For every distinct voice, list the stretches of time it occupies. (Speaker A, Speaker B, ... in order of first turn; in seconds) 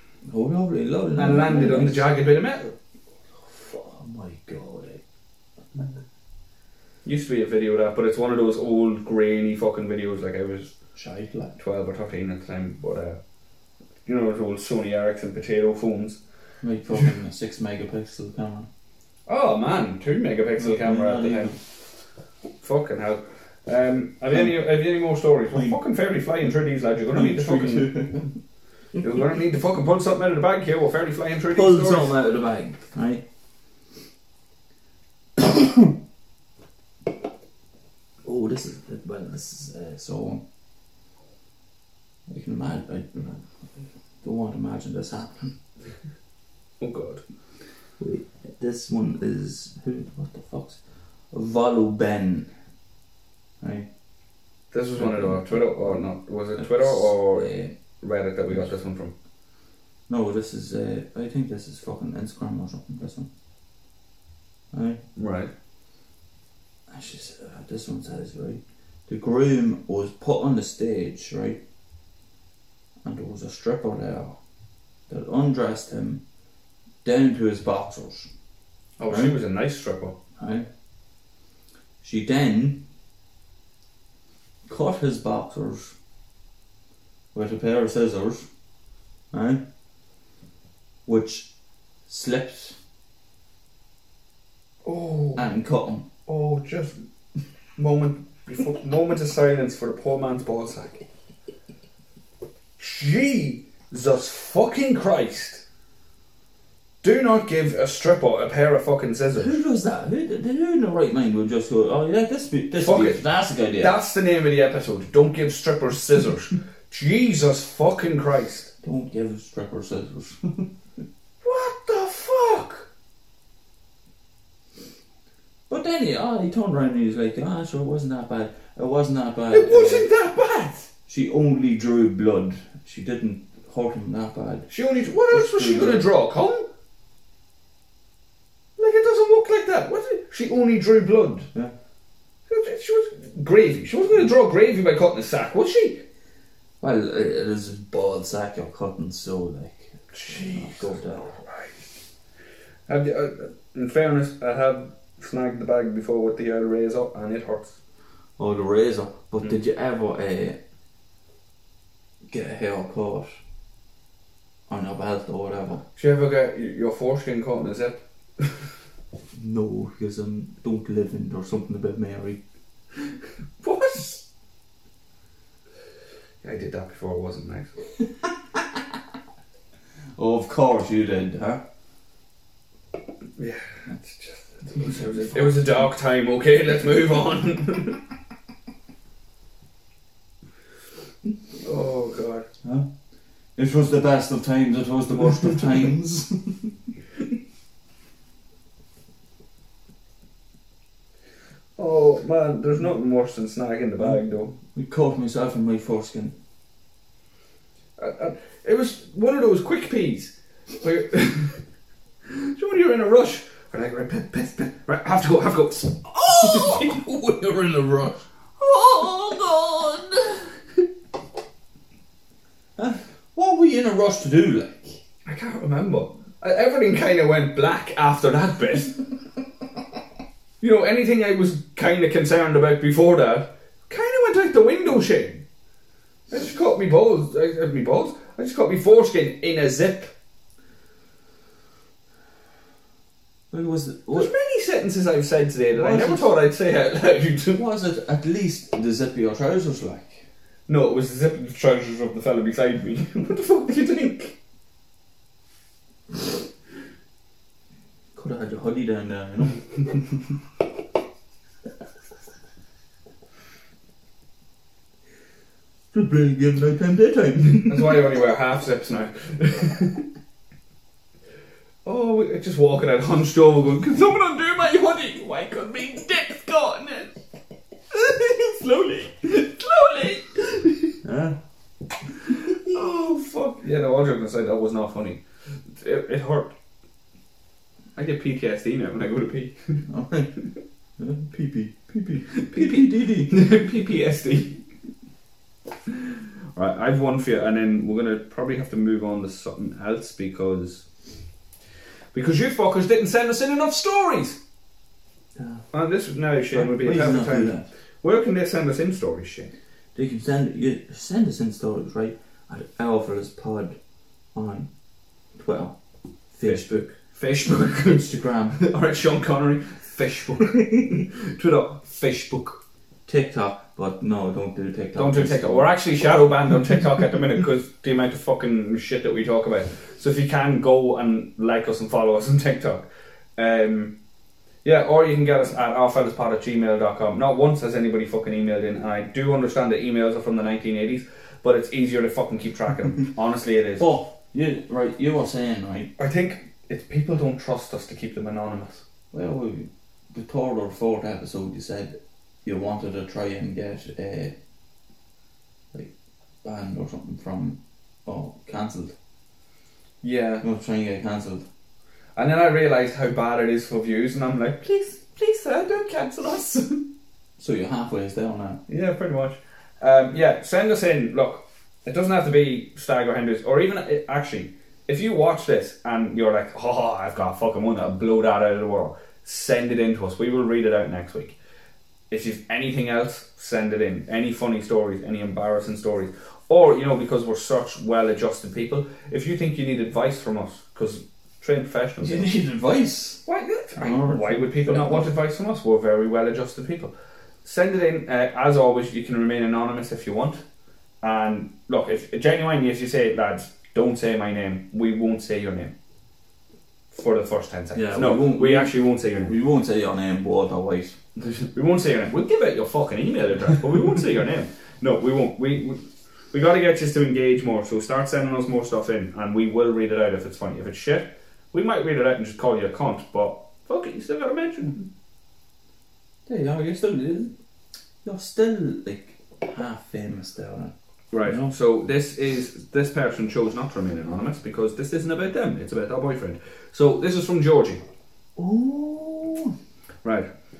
Speaker A: 0.3-2.1, 3.4-5.0, 10.9-11.6, 16.6-18.7, 20.6-21.6, 27.1-28.3, 31.5-33.2, 35.4-35.9, 38.2-40.4, 42.3-43.5, 44.2-45.6, 48.0-50.8, 51.3-52.5, 53.6-53.9, 55.0-57.7, 60.1-63.3, 64.7-65.0, 66.9-71.6, 73.0-74.4, 75.1-76.2, 77.0-78.3, 79.1-79.3, 80.4-80.7, 82.0-82.8, 84.7-85.9, 87.3-88.5, 89.3-89.6, 91.0-91.5, 92.1-92.8, 95.3-96.1, 109.3-114.0, 118.8-120.7, 125.7-130.1, 131.1-136.1, 146.8-151.3, 158.4-160.6, 162.3-163.3, 164.7-165.8, 169.3-172.4, 178.5-178.8, 180.2-181.6, 184.7-185.8, 192.6-192.9, 193.6-196.7, 204.6-206.3, 216.2-218.2, 222.8-225.0, 243.5-244.3, 245.7-246.3, 247.5-250.2, 258.1-260.4, 265.9-268.0, 281.0-281.4, 289.9-290.4, 291.0-293.4, 305.4-305.6, 306.5-307.7, 309.9-313.8, 314.3-314.7, 315.3-315.8, 316.3-316.9, 317.7-318.6, 320.6-320.9, 323.1-326.9, 343.8-345.9, 349.1-354.3, 355.7-358.9, 360.4-361.4, 367.4-368.6, 392.0-393.2, 393.8-395.1, 407.7-411.0, 426.3-427.3, 428.0-431.5, 438.4-439.5
Speaker B: 1.2-2.7, 7.0-10.7, 11.6-13.2, 14.1-16.2, 19.3-21.6, 22.6-28.0, 29.0-32.1, 46.8-47.2, 54.7-59.1, 65.2-65.5, 79.0-80.2, 94.8-95.5, 96.3-97.0, 97.8-101.0, 102.8-105.6, 107.0-109.6, 112.8-113.2, 113.8-118.7, 121.4-122.9, 129.5-130.9, 134.7-136.7, 138.8-141.5, 142.5-146.0, 150.1-151.8, 152.9-157.8, 165.9-168.7, 173.6-174.2, 176.4-177.7, 183.4-188.0, 191.6-192.5, 201.8-204.6, 208.0-211.6, 212.2-217.0, 218.6-220.5, 225.2-229.0, 230.6-235.4, 236.3-240.1, 244.1-247.6, 250.7-254.4, 267.6-270.1, 271.8-277.1, 277.9-281.0, 282.2-286.5, 287.9-289.8, 292.4-294.6, 295.9-300.9, 302.1-304.4, 305.7-309.5, 316.4-322.6, 324.9-333.9, 334.6-343.9, 346.0-348.9, 360.0-360.4, 362.1-366.9, 368.7-381.4, 382.1-392.3, 393.2-396.9, 397.4-400.4, 401.0-405.7, 406.9-409.3, 411.2-424.9, 431.1-437.8, 440.0-440.3